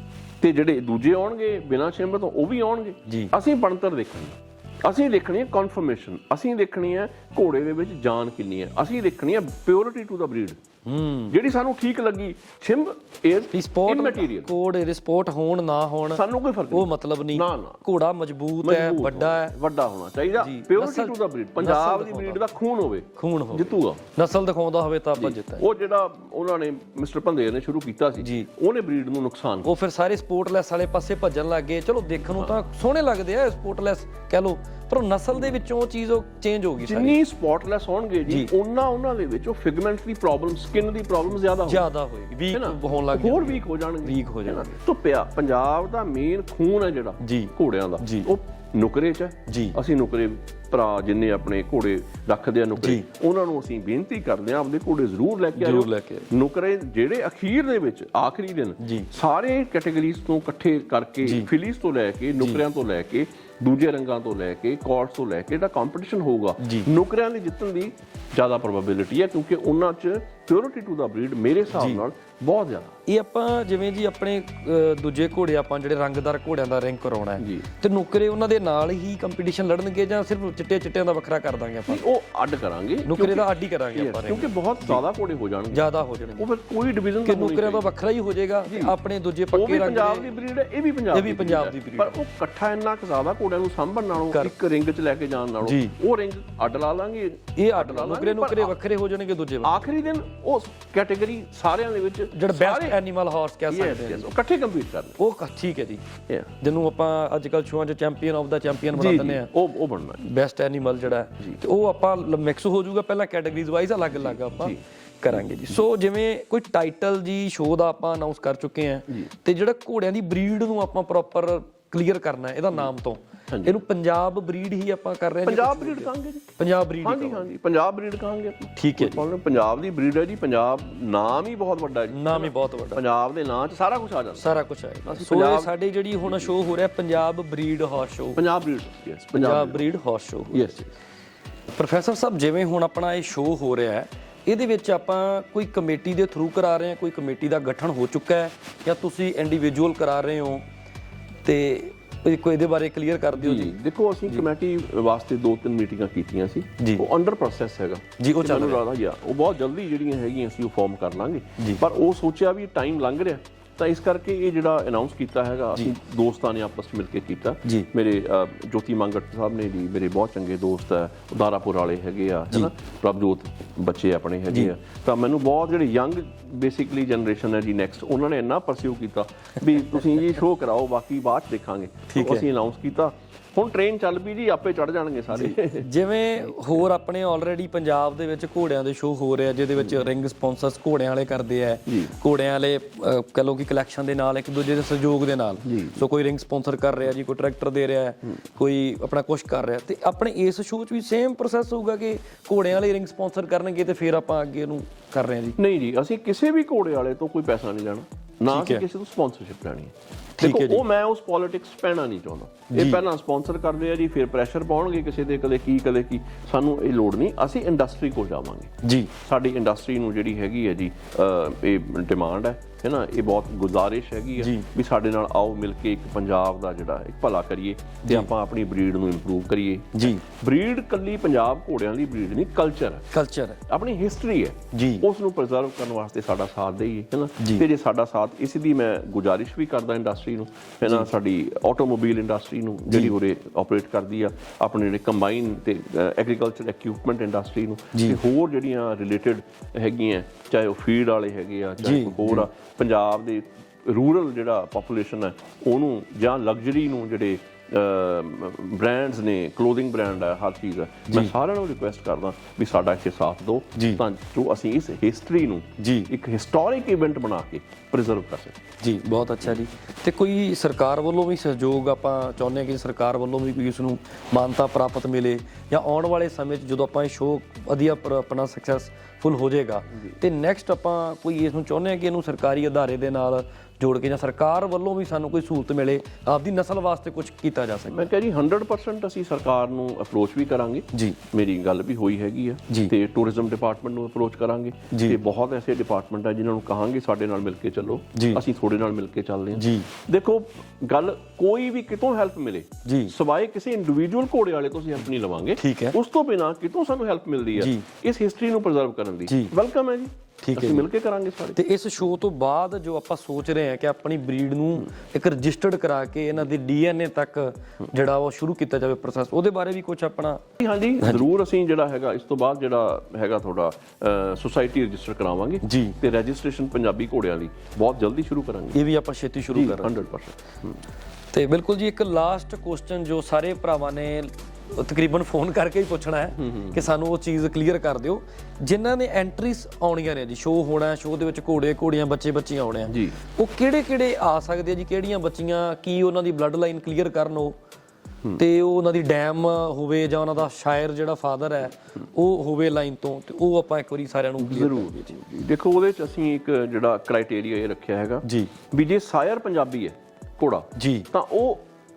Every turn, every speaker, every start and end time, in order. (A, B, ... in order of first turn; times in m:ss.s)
0:00.4-0:10.6 A
0:03.1-0:03.3 B
0:10.9-0:11.4 B
0:11.3-0:14.5 A
0:13.5-0:19.6 B
0:16.1-0:17.8 A
0:18.6-0:24.0 A
0:20.4-0:22.4 B
0:23.2-0:25.7 B
0:25.2-0:29.7 A
0:28.2-0:28.5 B
0:29.6-0:37.2 B
0:36.8-0:41.9 A
0:41.7-0:44.7 B
0:42.5-1:13.0 A
0:47.2-0:48.3 B
0:49.5-0:49.8 B
0:52.8-0:53.1 B
0:55.6-0:56.3 B
0:58.8-0:59.1 B
1:01.2-1:01.5 B
1:06.6-1:06.9 B
1:11.8-1:12.0 B
1:13.1-1:22.0 B
1:17.4-1:17.7 A
1:21.9-1:27.9 A
1:23.1-1:25.0 B
1:25.7-1:26.5 B
1:27.2-1:30.4 B
1:28.7-1:29.0 A
1:29.5-1:38.8 A
1:31.1-1:32.2 B
1:34.3-1:34.5 B
1:35.6-1:35.9 B
1:37.6-1:39.8 B
1:39.6-1:43.0 A
1:42.3-1:44.3 B
1:43.7-1:45.2 A
1:45.2-1:49.5 B
1:48.9-1:50.2 A
1:50.2-2:07.5 B
1:54.2-1:55.8 A
2:03.5-2:03.8 A
2:05.4-2:06.5 A
2:07.0-2:14.5 A
2:08.8-2:09.2 B
2:12.1-2:13.0 B
2:14.4-2:18.4 B
2:15.1-2:16.5 A
2:18.4-2:19.8 A
2:19.4-2:20.8 B
2:20.5-2:21.0 A
2:21.7-2:30.6 B
2:31.4-2:33.8 B
2:33.4-3:06.8 A
2:36.8-2:37.1 B
2:38.2-2:38.8 B
2:41.6-2:41.8 B
3:02.1-3:02.5 B
3:05.3-3:25.6 B
3:11.9-3:12.2 A
3:15.6-3:16.0 A
3:25.6-3:53.1 A
3:28.5-3:28.8 B
3:30.4-3:30.8 B
3:32.7-3:33.0 B
3:38.8-3:39.1 B
3:44.4-3:44.7 B
3:48.0-3:48.3 B
3:50.0-3:50.2 B
3:53.1-3:53.6 B
3:53.7-4:28.6 A
3:54.7-3:55.1 B
4:07.9-4:08.2 B
4:11.8-4:12.5 B
4:23.8-4:24.0 B
4:25.8-4:26.1 B
4:28.8-4:48.1 B
4:47.9-5:11.6 A
4:50.9-4:51.2 B
4:54.9-4:55.2 B
4:58.2-4:58.4 B
4:59.6-4:59.9 B
5:02.8-5:03.1 B
5:05.6-5:06.0 B
5:07.6-5:07.9 B
5:09.3-5:09.5 B
5:10.4-5:10.9 B
5:11.6-5:20.4 B
5:20.6-5:28.8 A
5:25.6-5:26.0 B
5:28.7-5:29.9 B
5:29.5-5:30.8 A
5:31.3-5:47.6 B
5:36.4-5:36.9 A
5:42.9-5:43.2 A
5:48.4-5:55.2 B
5:54.4-6:01.6 A
5:58.2-5:58.5 B
6:00.8-6:01.1 B